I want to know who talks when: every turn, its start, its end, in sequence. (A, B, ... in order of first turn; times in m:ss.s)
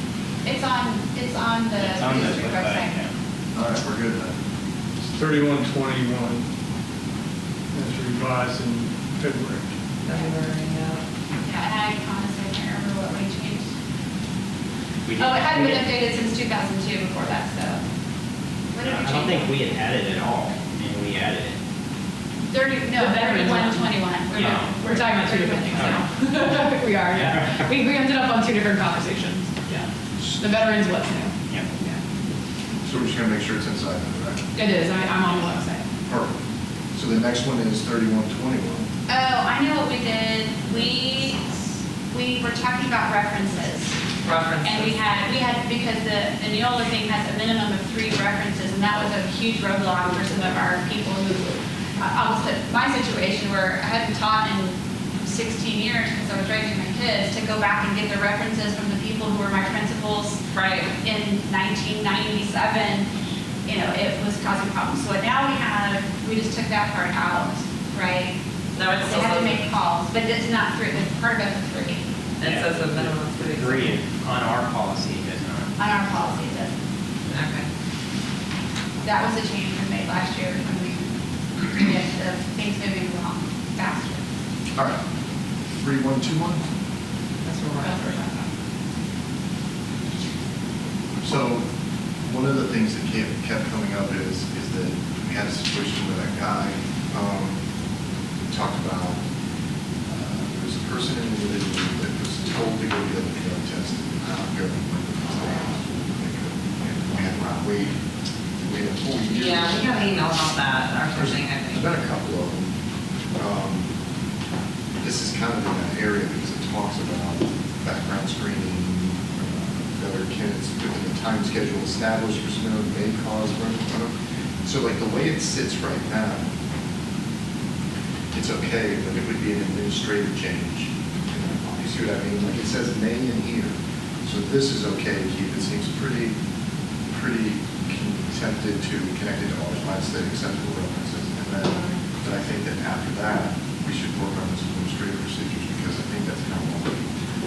0:00.4-0:03.0 A
0:01.8-0:03.1 B
0:03.5-0:04.4 C
0:05.1-0:06.5 D
0:07.7-0:09.7 D
0:10.0-0:11.0 E
0:11.4-0:13.7 A
0:15.0-0:15.8 B
0:15.2-0:17.8 A
0:18.7-0:19.7 A
0:18.8-0:21.6 B
0:22.5-0:26.0 A
0:22.9-0:24.2 F
0:24.3-0:24.7 B
0:24.7-0:32.0 F
0:27.1-0:27.6 B
0:32.8-0:34.4 C
0:34.5-0:35.8 F
0:36.0-0:36.4 C
0:36.9-0:38.9 C
0:39.1-0:44.0 A
0:44.2-0:45.0 E
0:44.6-1:00.4 A
1:00.5-1:00.9 E
1:00.9-1:03.1 A
1:03.7-1:08.4 A
1:08.7-1:09.6 E
1:09.0-1:12.1 A
1:12.4-1:14.0 E
1:12.4-1:15.7 B
1:15.8-1:16.7 A
1:17.2-1:17.7 E
1:19.0-1:24.2 A
1:25.8-1:26.6 C
1:27.4-1:28.2 E
1:27.8-1:28.5 A
1:31.2-1:31.7 C
1:32.2-1:37.6 C
1:38.5-1:39.2 C
1:40.1-1:48.0 C
1:48.6-1:50.1 C
1:49.3-1:51.8 E
1:51.1-1:52.7 C
1:53.4-1:53.9 C
1:55.0-2:04.1 C
2:04.6-2:06.5 C
2:08.3-2:16.3 C
2:17.1-2:27.0 C